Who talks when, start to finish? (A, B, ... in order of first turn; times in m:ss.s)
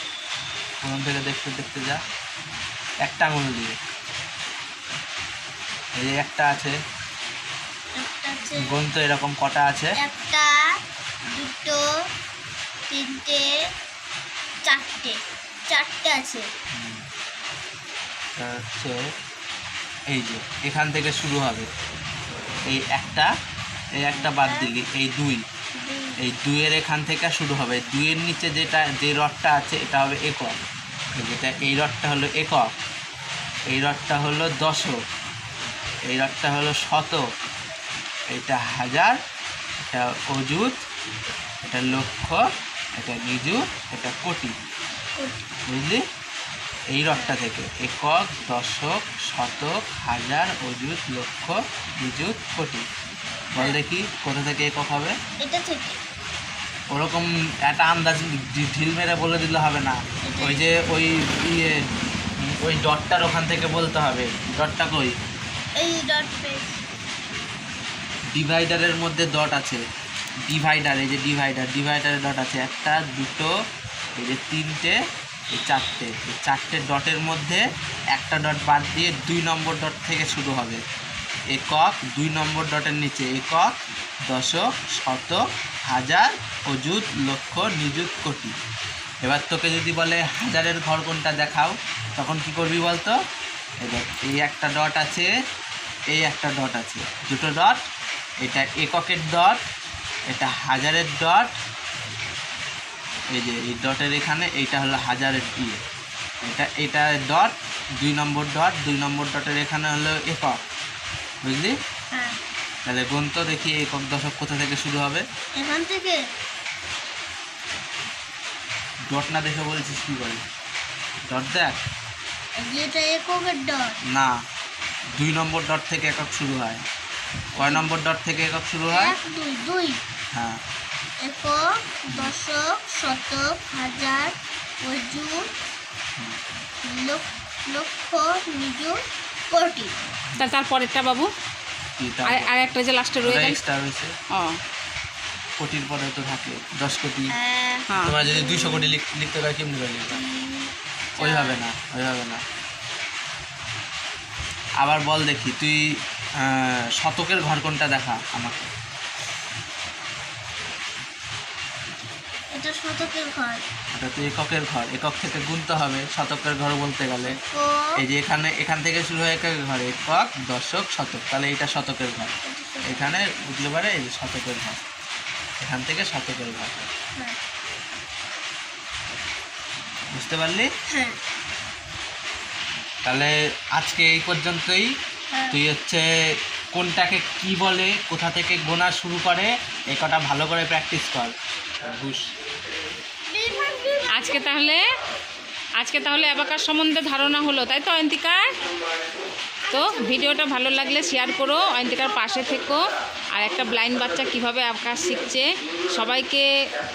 0:00.8-0:02.0 A
0:03.0-0:03.8 A
0:05.9-0:06.7 A
0:08.0-0:08.7 B
0:08.6-0:09.9 A
0:10.0-0:10.5 B
0:11.3-0:11.8 B
0:12.9-0:13.5 B
0:14.6-0:15.2 B
0:15.7-0:16.4 B
0:16.7-0:17.0 A
0:18.4-0:19.0 A
0:20.1-0:21.7 A
0:22.7-0:23.3 A
0:24.0-0:25.4 A
0:24.1-0:24.7 B
0:25.7-0:26.2 B
0:26.2-0:30.6 A
0:31.1-0:32.7 A
0:33.7-0:35.0 A
0:36.1-0:37.2 A
0:38.3-0:39.2 A
0:39.9-0:40.8 A
0:41.6-0:42.4 A
0:43.0-0:44.5 A
0:45.2-0:45.5 B
0:45.7-0:46.0 A
0:46.9-0:52.8 A
0:53.5-0:55.1 A
0:55.4-0:56.0 B
0:56.9-1:01.8 A
1:00.2-1:00.6 B
1:02.4-1:05.1 A
1:05.8-1:06.8 B
1:08.3-1:09.8 A
1:10.5-1:13.5 A
1:14.2-1:15.0 A
1:15.5-1:17.6 A
1:18.1-1:20.8 A
1:21.5-1:23.7 A
1:24.2-1:28.6 A
1:29.2-1:33.2 A
1:33.8-1:35.3 A
1:36.1-1:37.8 A
1:38.4-1:39.6 A
1:40.3-1:41.6 A
1:43.3-1:45.8 A
1:46.4-1:50.6 A
1:51.4-1:51.8 A
1:52.1-1:52.4 B
1:52.8-1:55.2 A
1:55.6-1:56.2 B
1:59.1-2:00.4 A
2:01.3-2:01.8 A
2:02.6-2:04.0 B
2:04.1-2:04.4 A
2:05.2-2:06.8 A
2:07.6-2:07.9 B
2:07.6-2:09.2 A
2:08.9-2:10.0 B
2:10.3-2:10.6 A
2:11.2-2:15.4 B
2:16.8-2:19.0 B
2:19.5-2:19.9 B
2:20.4-2:21.3 C
2:22.0-2:22.6 A
2:22.2-2:23.6 C
2:23.2-2:24.1 A
2:24.3-2:24.6 C
2:25.6-2:27.3 A
2:27.3-2:29.0 B
2:27.9-2:28.2 C
2:28.0-2:30.2 A
2:30.1-2:31.6 B
2:31.2-2:32.4 A
2:34.8-2:38.7 A
2:42.5-2:43.6 B
2:43.9-2:47.4 A
2:47.4-2:47.9 B
2:48.0-2:52.3 A
2:52.4-2:53.2 B
2:52.8-2:54.8 A
2:55.6-2:56.9 A
3:00.1-3:00.7 A
3:00.9-3:01.2 B
3:03.0-3:04.9 A
3:05.3-3:05.6 B
3:05.5-3:06.0 A
3:06.7-3:11.3 A
3:11.8-3:12.3 A
3:13.3-3:14.5 B
3:14.1-3:14.8 C
3:15.8-3:18.5 C
3:19.7-3:26.6 C
3:19.7-3:21.7 B